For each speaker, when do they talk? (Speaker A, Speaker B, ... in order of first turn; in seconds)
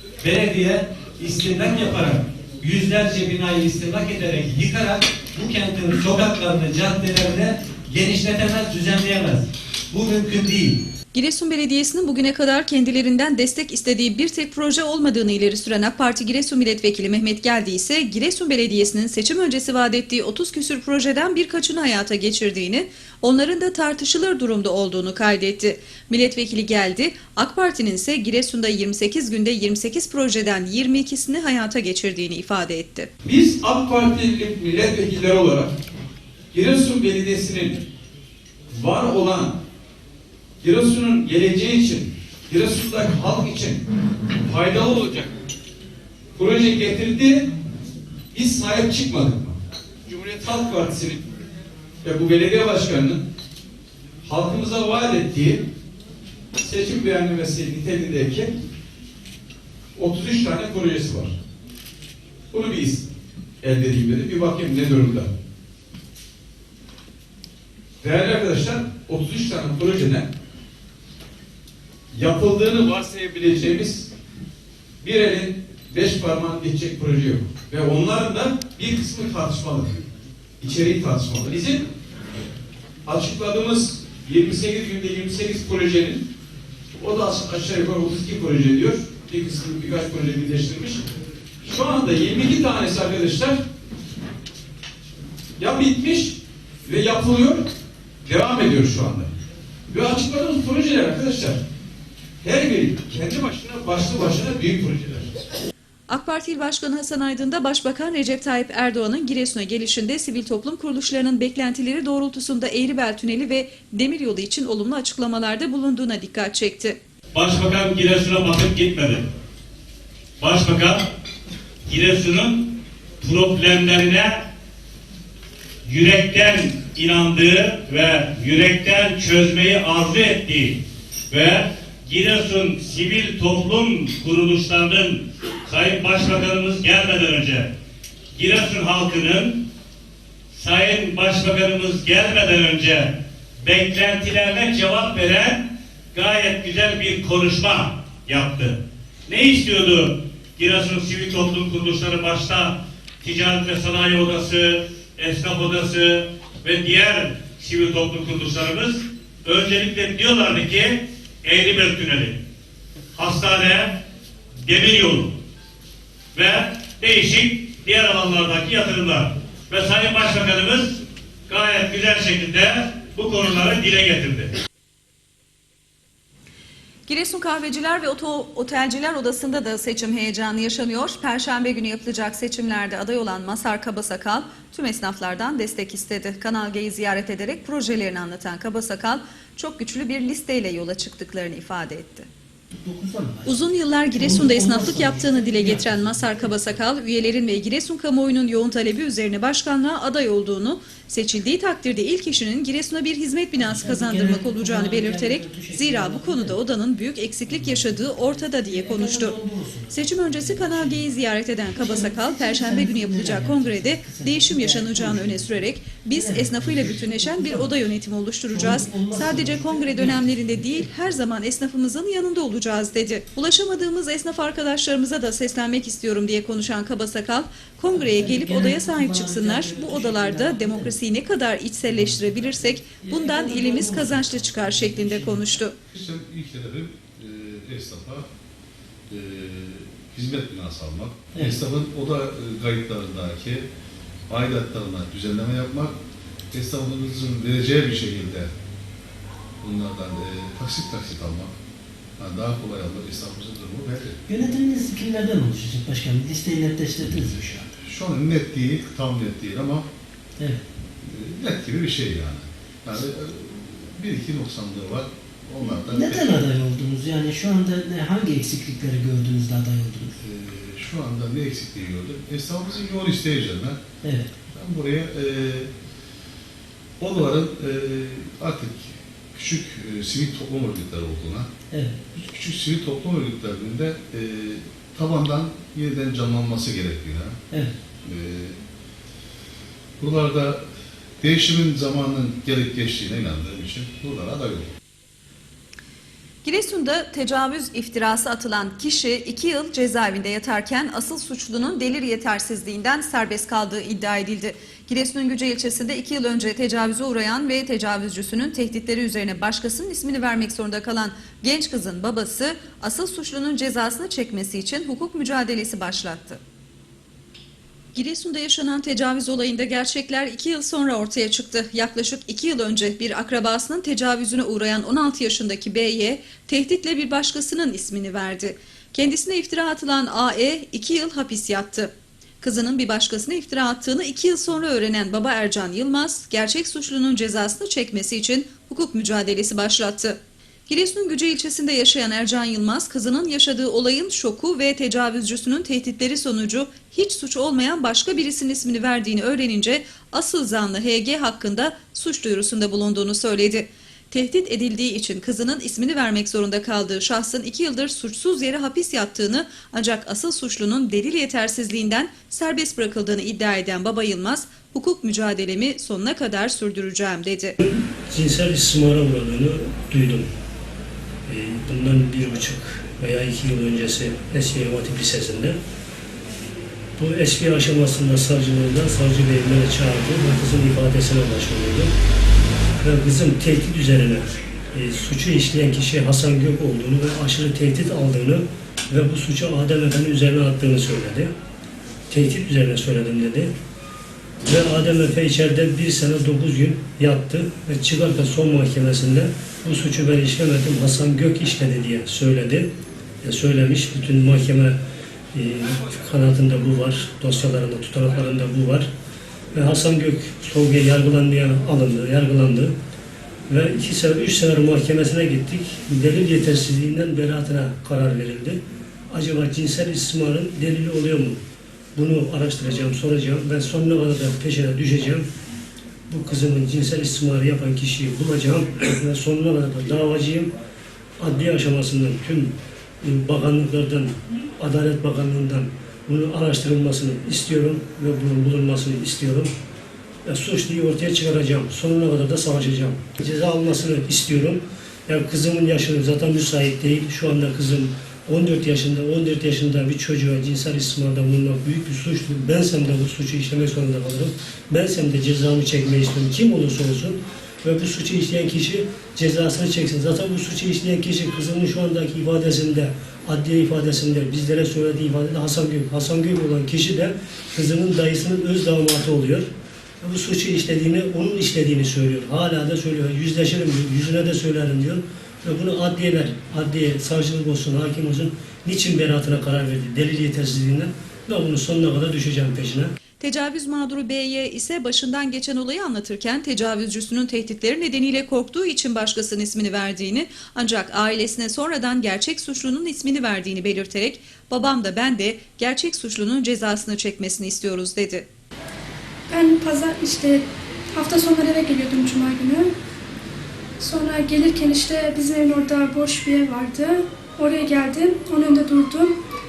Speaker A: 0.2-10.8
Speaker B: 11.1-33.1, 106.1-117.0, 177.1-192.3, 193.4-209.4, 209.9-235.8, 296.4-316.4, 317.9-367.6, 483.2-498.3
Speaker C: 33.2-35.7, 36.5-37.8, 38.7-39.6, 40.6-43.8, 44.4-45.3, 46.3-47.5, 48.3-51.2, 52.0-53.2, 54.2-55.6, 56.5-58.5, 59.9-61.3, 62.5-63.1, 63.6-65.3, 68.0-70.3, 72.1-74.1, 75.0-80.0, 80.6-81.8, 83.0-86.3, 86.9-91.0, 91.6-93.6, 95.6-97.7, 98.2-99.3, 99.9-101.6, 102.4-105.4
Speaker D: 117.3-119.2, 120.4-121.0, 121.8-124.5, 125.8-137.7, 138.3-139.6, 140.5-162.4, 163.1-164.0, 164.6-165.4, 166.3-174.5
Speaker E: 192.7-196.8, 203.6-206.6, 207.5-211.1, 211.7-217.9, 218.5-221.1, 227.9-231.0, 231.9-235.6, 254.3-257.7, 265.9-270.1, 274.0-274.3, 281.7-282.0
Speaker F: 235.9-238.2, 239.1-243.7, 244.3-245.9, 246.5-248.5, 249.6-251.5, 252.2-254.2, 257.8-259.9, 261.0-266.3, 270.2-273.8, 274.5-275.7, 277.0-281.5, 282.1-287.4, 288.0-288.6, 290.0-290.6, 291.2-294.7
Speaker G: 367.6-370.3, 371.2-375.6, 377.0-381.9, 382.8-391.3, 392.1-393.5, 394.4-402.7, 403.2-404.8, 405.3-408.9, 409.5-412.7, 413.5-421.4, 421.9-425.3, 426.1-430.5, 431.2-439.5, 440.2-469.5, 470.0-482.9
Speaker H: 499.3-502.7, 503.8-509.1